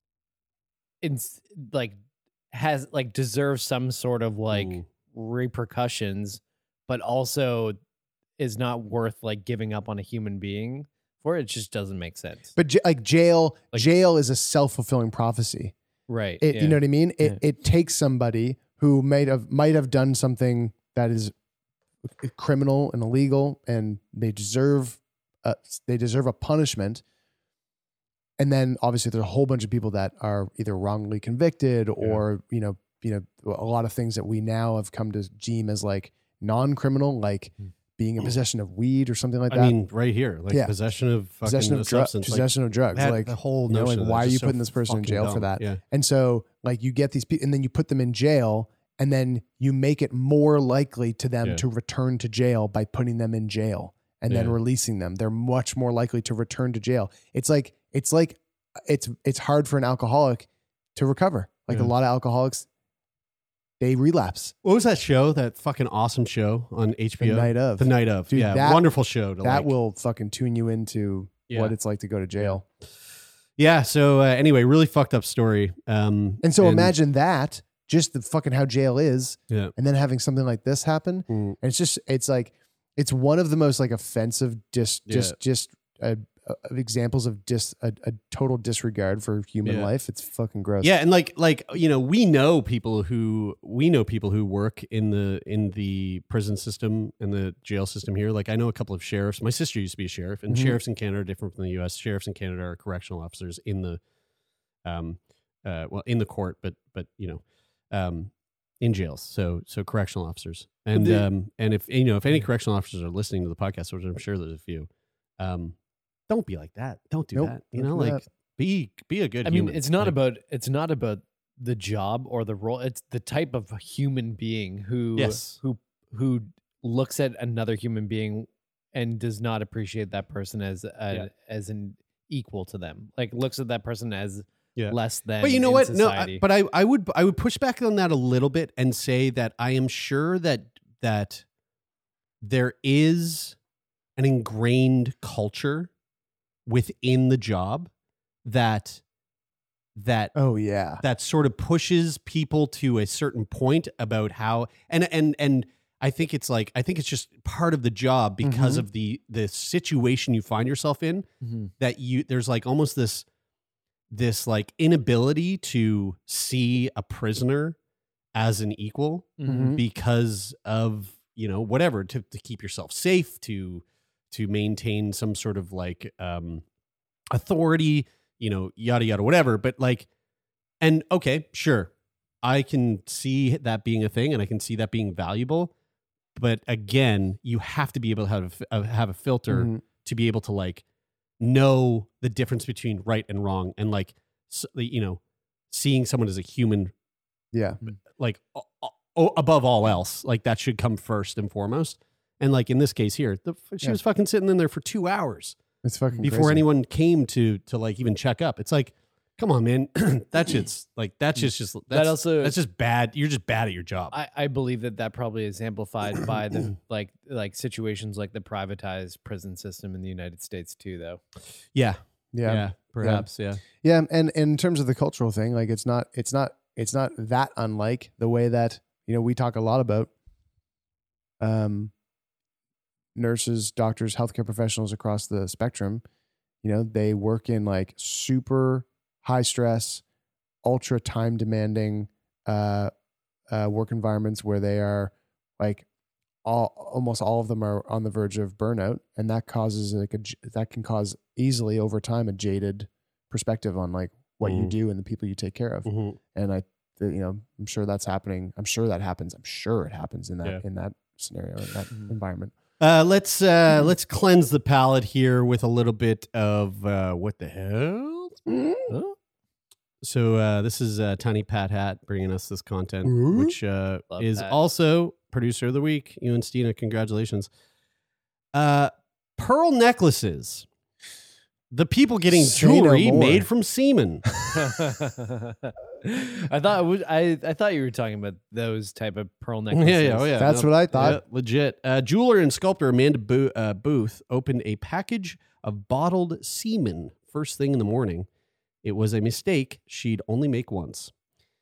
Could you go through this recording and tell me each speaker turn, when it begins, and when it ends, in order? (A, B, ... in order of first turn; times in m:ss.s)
0:01.0-0:02.0 A
0:02.5-0:07.8 A
0:04.5-0:04.8 B
0:08.4-0:12.5 A
0:12.6-0:15.7 C
0:16.1-0:17.4 A
0:16.4-0:21.3 C
0:22.2-0:27.0 C
0:28.4-0:39.8 C
0:39.5-0:45.8 B
0:41.4-1:02.7 C
0:54.3-0:54.6 B
1:03.8-1:04.6 C
1:04.6-1:09.7 B
1:07.2-1:12.6 C
1:11.5-1:11.8 B
1:13.6-1:16.9 B
1:16.4-1:30.9 C
1:21.3-1:21.6 B
1:25.1-1:25.4 B
1:29.6-1:29.9 B
1:30.8-1:44.0 B
1:40.5-1:40.8 C
1:44.8-1:55.8 B
1:51.0-1:51.2 A
1:56.3-2:00.2 B
1:57.3-1:58.2 C
1:59.4-2:16.4 A
2:05.2-2:05.6 B
2:14.8-2:21.4 B
2:22.4-2:23.6 B
2:24.2-2:25.9 B
2:26.7-2:27.9 B
2:28.4-2:29.0 B
2:30.0-2:30.4 B
2:30.4-2:31.0 C
2:31.0-2:41.3 B
2:38.4-2:38.9 C
2:41.4-2:41.7 A
2:41.8-2:43.2 B
2:44.1-2:47.8 B
2:48.3-2:56.6 B
2:49.4-2:49.8 A
2:49.5-2:49.8 C
2:57.3-3:00.1 B
3:00.8-3:01.9 B
3:02.4-3:05.7 B
3:06.4-3:10.8 B
3:09.5-3:09.8 C
3:11.4-3:16.9 B
3:17.5-3:17.8 C
3:18.2-3:25.6 B
3:25.8-3:26.6 C
3:26.2-3:34.2 B
3:31.9-3:32.6 A
3:34.1-3:41.2 A
3:41.7-3:43.6 B
3:42.3-3:50.1 C
3:51.4-3:51.9 C
3:53.2-3:56.0 C
3:56.6-4:00.0 C
4:00.6-4:02.9 C
4:03.5-4:05.9 C
4:06.4-4:22.5 C
4:14.4-4:14.7 B
4:15.9-4:16.2 B
4:22.8-4:28.4 B
4:28.5-4:28.9 C
4:30.0-4:37.5 B
4:33.0-4:33.6 C
4:34.1-4:34.6 A
4:38.5-4:40.7 B
4:41.7-4:44.3 B
4:42.3-4:43.5 C
4:44.5-4:50.4 A
4:49.7-4:58.3 B
4:50.4-4:51.2 C
4:58.8-5:01.1 B